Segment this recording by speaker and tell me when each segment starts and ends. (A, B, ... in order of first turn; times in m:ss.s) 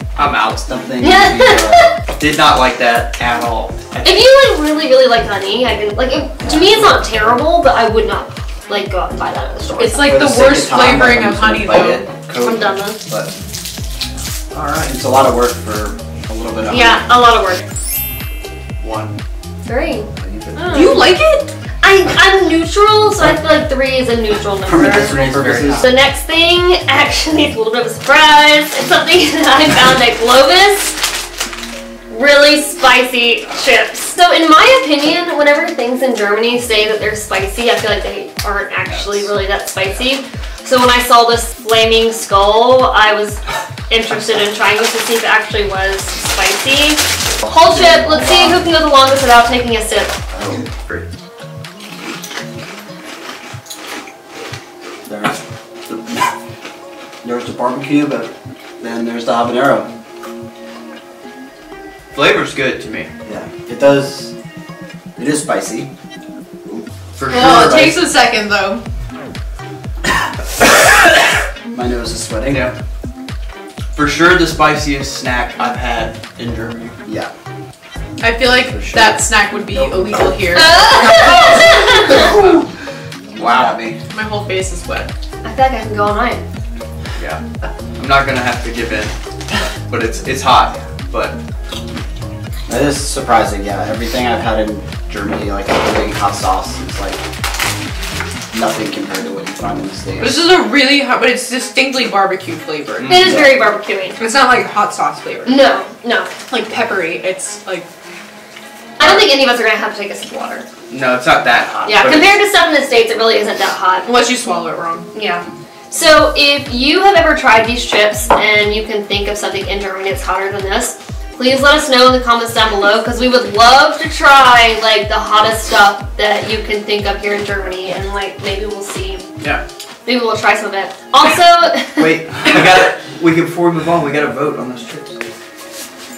0:00.2-0:00.6 A
0:00.6-0:01.9 B
0:01.0-0:01.9 C
0:02.1-0:04.2 A
0:04.0-0:10.1 C
0:06.4-0:07.0 B
0:09.8-0:12.1 D
0:10.0-0:13.3 B
0:12.4-0:13.0 C
0:14.6-0:14.9 D
0:14.8-0:17.1 B
0:16.7-0:17.6 C
0:18.8-0:19.2 A
0:19.6-0:21.1 C
0:20.1-0:21.0 B
0:20.7-0:21.5 D
0:21.8-0:25.1 C
0:24.6-0:25.9 B
0:24.9-0:25.9 A
0:25.8-0:31.1 C
0:32.1-0:50.1 C
0:47.5-0:48.6 B
0:50.3-0:50.7 B
0:50.6-0:51.1 A
0:55.0-0:56.3 B
0:57.2-0:59.9 B
1:02.1-1:03.1 A
1:03.2-1:04.3 B
1:05.2-1:05.9 B
1:07.2-1:08.0 A
1:07.3-1:08.8 D
1:11.7-1:12.7 B
1:13.9-1:17.0 A
1:17.0-1:17.3 B
1:18.2-1:22.3 D
1:18.6-1:20.5 B
1:20.5-1:22.2 C
1:23.3-1:24.0 B
1:24.1-1:25.1 D
1:25.4-1:26.4 C
1:28.0-1:29.1 A
1:29.9-1:31.4 A
1:32.7-1:37.2 B
1:38.5-1:40.5 B
1:40.2-1:43.1 D
1:43.0-1:43.4 A
1:43.0-1:44.2 C
1:43.2-1:43.5 B
1:44.2-1:45.7 D
1:45.4-1:46.3 C
1:46.5-1:47.9 D
1:49.0-1:50.7 C
1:49.0-1:49.3 A
1:50.9-1:52.4 A
1:51.8-1:54.2 C
1:54.0-1:55.1 D
1:55.1-2:09.2 C
2:10.0-2:12.2 C
2:12.0-2:15.2 A